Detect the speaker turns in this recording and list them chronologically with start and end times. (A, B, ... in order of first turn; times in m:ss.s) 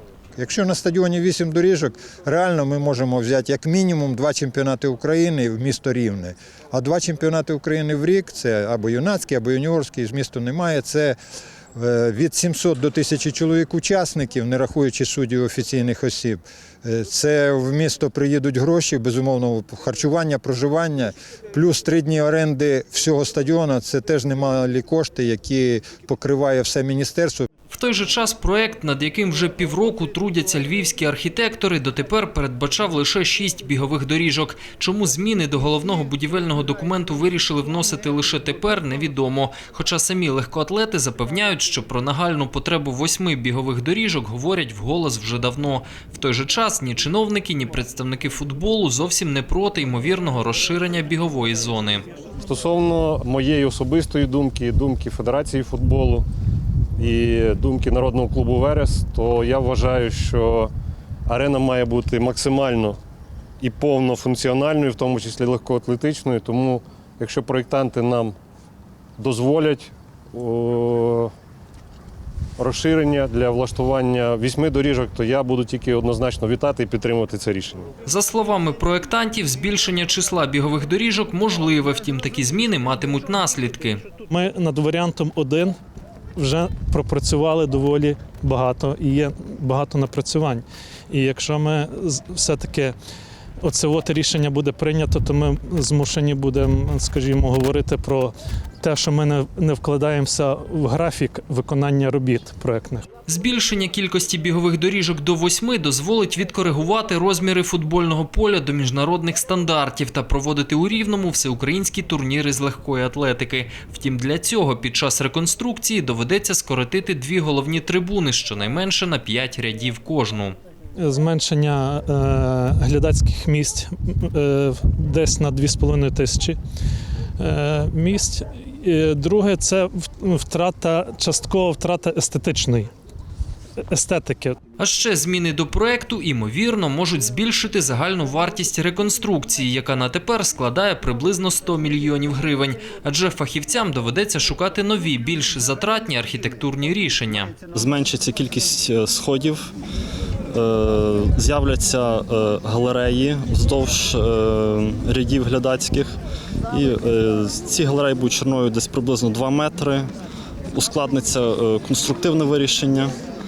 0:00.4-0:11.2 A
0:11.7-0:27.4 A
0:27.7-0:52.0 B
0:52.4-0:56.3 C
0:57.0-1:00.7 C
1:01.2-1:03.0 C
1:03.6-1:08.3 C
1:09.2-1:11.3 C
1:12.6-1:17.9 C
1:18.0-1:24.0 B
1:24.3-1:25.8 D
1:26.4-1:32.9 D
1:33.6-1:43.0 D
1:43.3-2:00.6 B
2:01.0-2:06.6 D
2:07.4-2:12.9 D
2:13.9-2:14.6 D
2:14.8-2:27.5 B
2:27.7-2:29.7 E
2:30.5-2:36.1 E
2:36.7-2:40.1 E
2:40.7-2:43.1 E